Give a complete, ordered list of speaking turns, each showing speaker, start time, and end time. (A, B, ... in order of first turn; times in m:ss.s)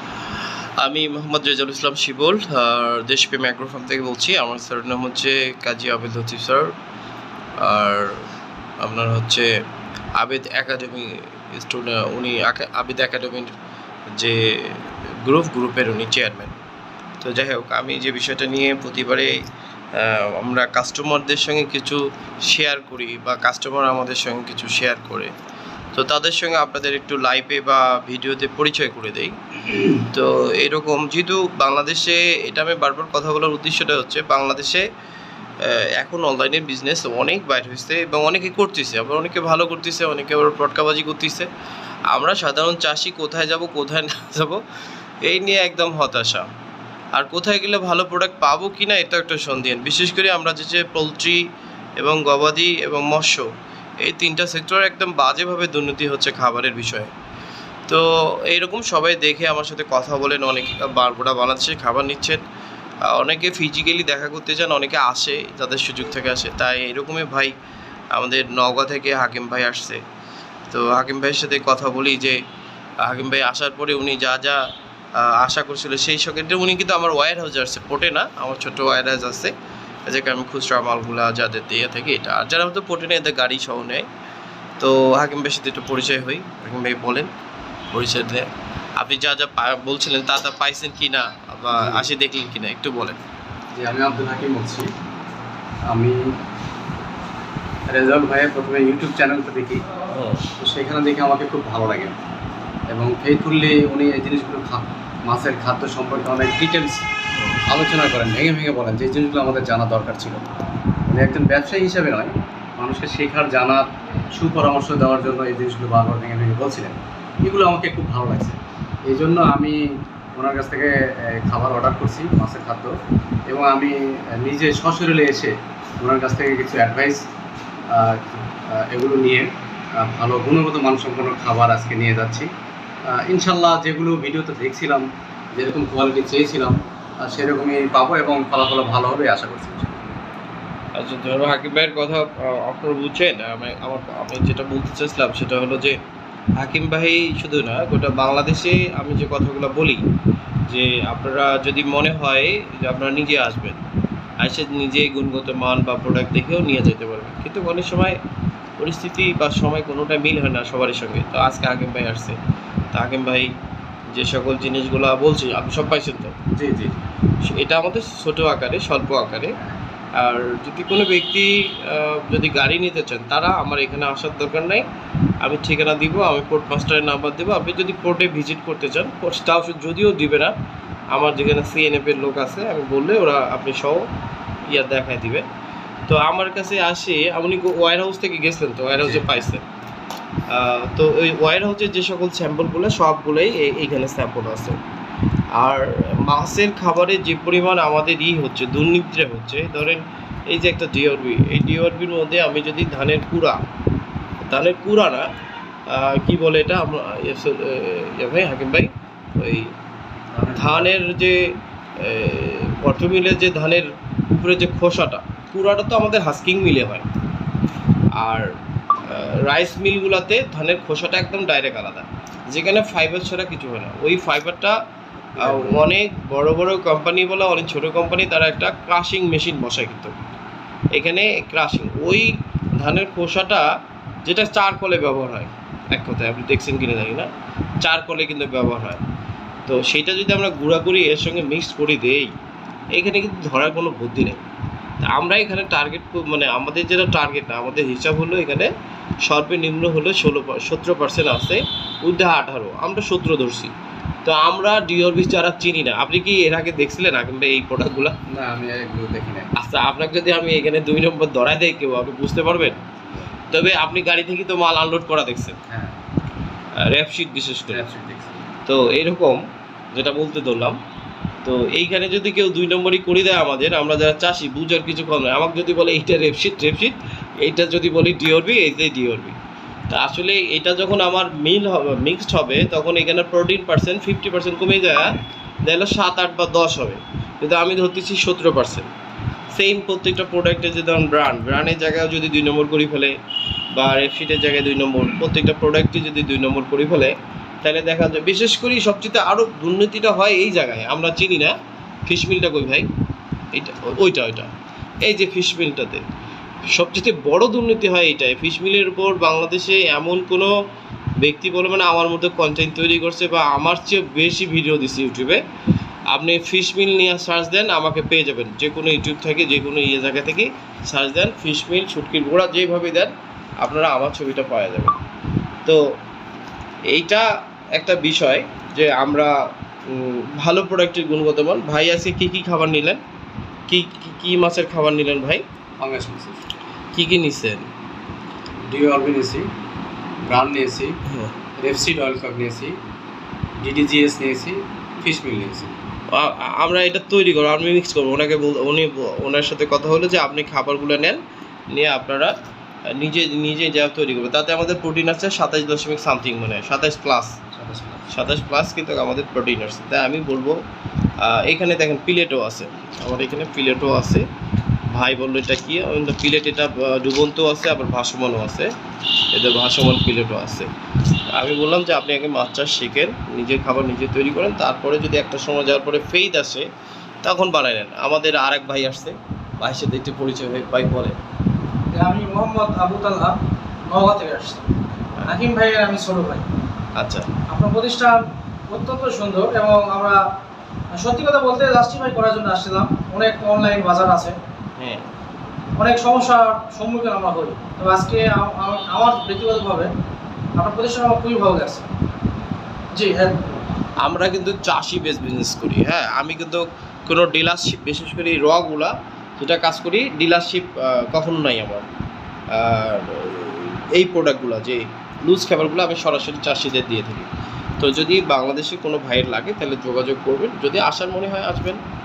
0:00.3-0:06.7 A
0:07.6-0:08.3 A
0:08.8-0:09.5 A
0:10.2-0:13.5 A
0:14.1-0:16.5 A
0:17.2-0:19.4 A
0:19.9-0:25.3 A
0:25.9-0:34.8 A
0:35.6-0:41.5 A
0:42.1-0:44.6 A
0:45.2-0:46.5 A
0:47.1-0:51.4 A
0:52.0-0:53.5 A
0:54.0-0:57.1 A
0:57.9-1:02.4 A
1:03.0-1:07.5 A
1:08.1-1:10.0 A
1:10.7-1:12.4 A
1:13.0-1:14.6 A
1:15.2-1:19.5 A
1:20.1-1:24.0 A
1:24.8-1:27.3 A
1:27.9-1:33.2 A
1:31.7-1:32.0 B
1:33.8-1:34.9 B
1:35.9-1:36.3 B
1:37.9-1:39.8 B
1:40.1-1:40.5 A
1:40.6-1:42.2 B
1:42.9-1:47.0 B
1:47.3-1:47.6 A
1:47.7-1:50.4 B
1:51.1-1:53.8 B
1:54.4-1:59.8 B
2:00.3-2:02.9 B
2:03.5-2:07.2 B
2:07.9-2:12.5 B
2:13.0-2:20.1 B
2:20.9-2:26.0 A
2:26.6-2:30.0 A
2:30.7-2:33.8 A
2:34.4-2:38.2 A
2:38.8-2:42.4 A
2:42.9-2:43.5 A
2:44.1-2:46.4 A
2:46.5-2:47.0 B
2:47.4-2:49.6 A
2:50.2-2:54.8 A
2:55.4-3:00.5 A
3:01.1-3:04.0 A
3:04.7-3:05.4 A
3:06.1-3:09.6 A
3:09.0-3:09.4 B
3:10.5-3:14.8 A
3:15.6-3:23.6 A
3:24.4-3:25.3 A
3:25.9-3:29.7 A
3:30.3-3:30.9 B
3:30.6-3:37.1 A
3:38.2-3:38.5 A
3:39.0-3:44.8 A
3:45.3-3:45.8 B
3:45.4-3:50.2 A
3:50.9-3:53.7 A
3:54.2-3:57.3 A
3:57.8-3:59.0 A
3:59.7-4:02.3 A
4:02.9-4:04.4 A
4:05.0-4:08.7 A
4:09.2-4:13.7 A
4:14.2-4:18.1 A
4:18.3-4:19.5 B
4:19.6-4:22.8 A
4:22.8-4:23.3 B
4:23.5-4:25.6 A
4:25.7-4:26.0 B
4:26.8-4:27.8 A
4:27.7-4:28.4 B
4:28.6-4:29.4 A
4:29.9-4:30.8 A
4:31.4-4:39.4 A
4:39.9-4:48.9 A
4:49.6-4:53.1 A
4:53.7-5:01.6 A
5:02.1-5:02.9 A
5:03.5-5:04.5 A
5:05.0-5:06.0 A
5:06.7-5:10.5 A
5:11.2-5:15.4 A
5:16.1-5:24.9 A
5:26.9-5:27.2 A
5:27.8-5:29.3 A
5:29.9-5:33.0 A
5:33.7-5:35.4 A
5:35.8-5:36.4 B
5:36.9-5:37.7 A
5:38.7-5:39.5 B
5:40.2-5:41.0 B
5:41.6-5:42.8 B
5:43.6-5:45.7 B
5:46.1-5:52.3 A
5:52.9-5:57.4 A
5:57.5-5:58.1 B
5:58.1-6:00.6 A
6:01.2-6:04.2 A
6:04.9-6:08.7 A
6:09.3-6:10.7 A
6:11.3-6:16.7 A
6:17.2-6:21.2 A
6:22.0-6:23.4 C
6:23.9-6:24.6 C
6:25.2-6:26.4 C
6:27.0-6:27.3 A
6:27.5-6:28.2 C
6:28.7-6:30.2 C
6:30.9-6:34.3 C
6:34.8-6:35.0 A
6:35.8-6:39.9 C
6:40.6-6:41.9 C
6:43.0-6:43.4 C
6:44.0-6:51.8 A
6:52.5-6:57.3 A
6:57.8-7:01.8 A